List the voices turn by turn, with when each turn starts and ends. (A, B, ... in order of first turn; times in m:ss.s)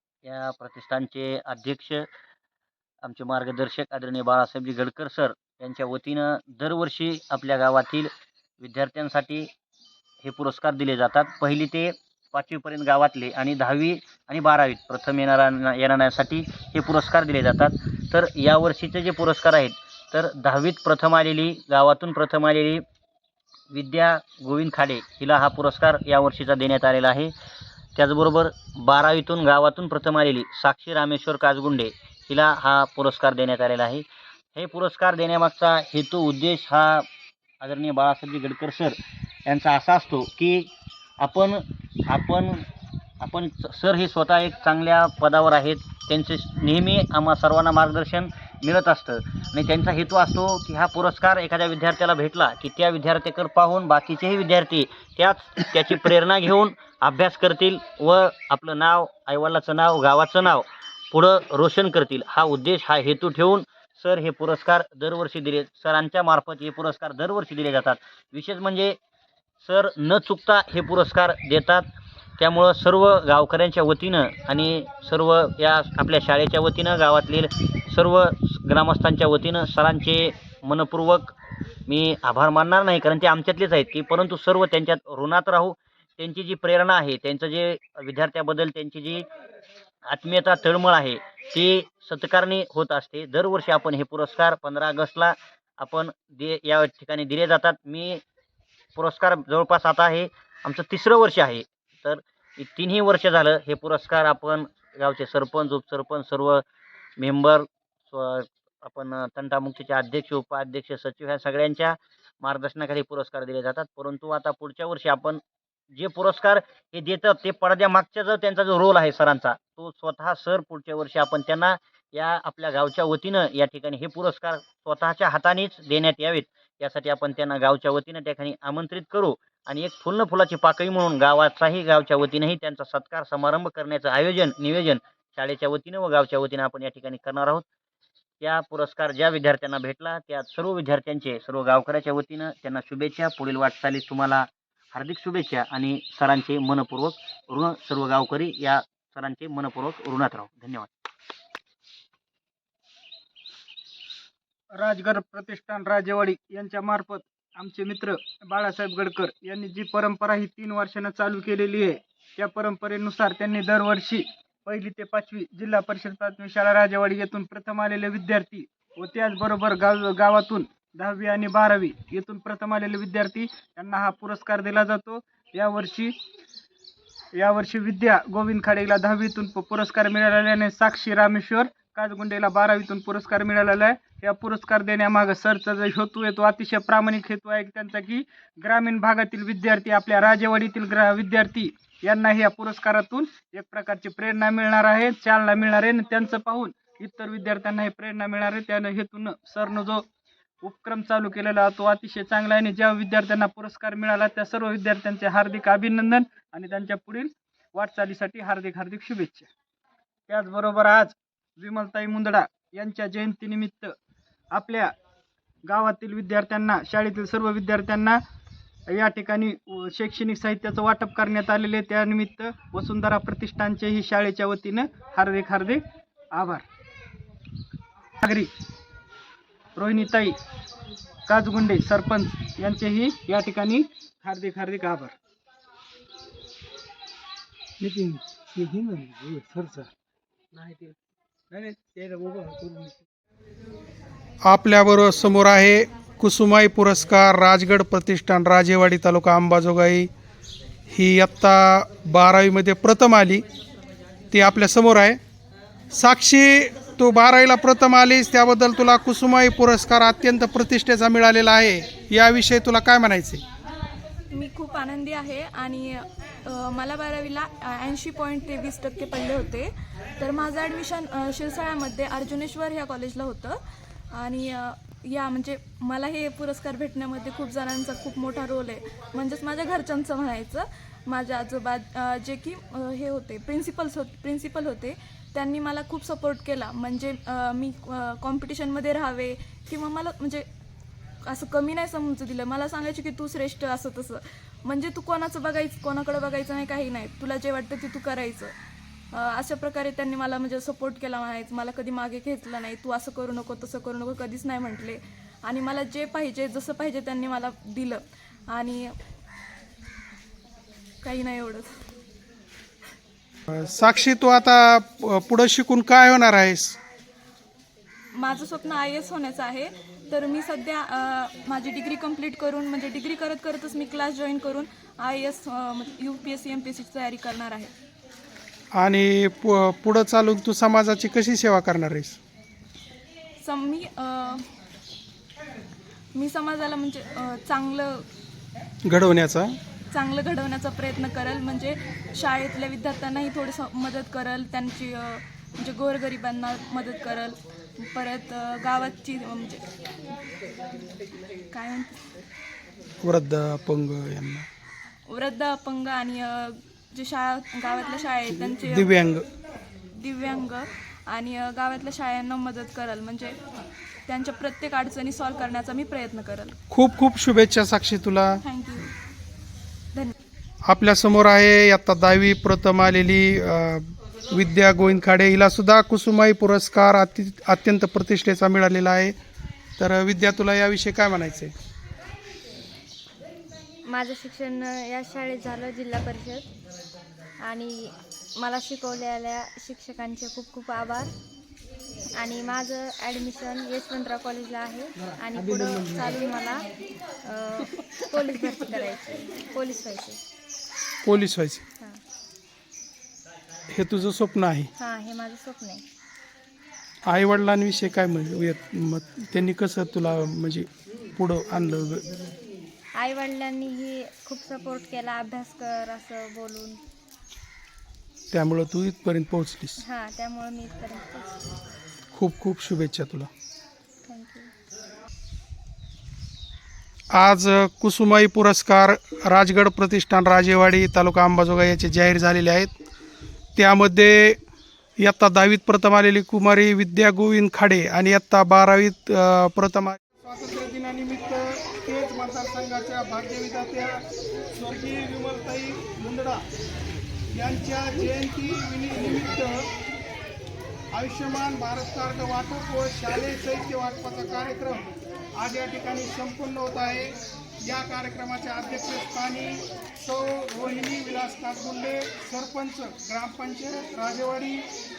0:00.2-0:02.1 A
0:03.0-0:09.5 A
0:10.2-0:22.8 A
0:23.7-0:27.3 A
0:28.0-0:34.0 A
0:34.6-0:37.1 A
0:37.6-0:39.0 A
0:39.5-0:40.7 A
0:41.2-0:42.6 A
0:43.2-1:08.9 A
1:09.6-1:11.9 A
1:12.4-1:21.3 A
1:21.9-1:29.2 A
1:30.1-1:38.2 A
1:39.0-1:46.6 A
1:47.2-1:55.4 A
1:55.9-2:17.6 A
2:18.4-2:30.9 A
2:34.7-2:56.1 B
2:57.4-3:20.0 B
3:20.6-3:29.5 B
3:30.3-3:33.9 B
3:34.5-3:34.9 B
3:35.6-3:38.2 B
3:38.9-3:46.6 B
3:48.2-3:48.5 B
3:49.8-3:50.4 B
3:51.3-3:55.1 B
3:57.8-3:59.8 C
3:58.0-3:59.8 B
4:01.5-4:02.9 B
4:01.9-4:02.8 C
4:04.4-4:10.1 D
4:10.9-4:13.4 D
4:14.3-4:15.2 D
4:15.9-4:23.4 D
4:24.3-4:33.6 E
4:34.1-4:50.5 E
4:51.2-4:58.5 E
4:59.1-5:08.9 E
5:11.0-5:11.7 E
5:13.5-5:16.8 D
5:18.2-5:27.7 E
5:28.7-5:32.2 D
5:33.4-5:34.5 E
5:36.1-5:38.0 E
5:38.8-5:39.6 D
5:39.9-5:49.6 E
5:51.5-5:52.0 E
5:53.0-5:54.5 D
5:55.1-5:58.9 E
5:58.3-5:59.2 D
5:59.9-6:03.4 E
6:04.1-6:06.6 E
6:06.7-6:08.4 D
6:08.4-6:08.9 E
6:10.7-6:19.1 D
6:19.8-6:21.5 D
6:23.8-6:26.5 F
6:27.4-6:31.1 F
6:32.2-6:36.7 F
6:37.2-6:40.2 F
6:41.0-6:41.6 D
6:43.7-6:44.7 D
6:44.8-6:45.8 F
6:47.0-6:52.0 D
6:53.0-6:56.8 F
6:58.3-6:59.8 D
6:59.8-7:01.5 F
7:02.1-7:03.3 D
7:04.0-7:04.5 F
7:07.1-7:12.7 D
7:13.6-7:14.4 D
7:15.0-7:26.4 D
7:27.3-7:29.6 D
7:30.9-7:44.6 D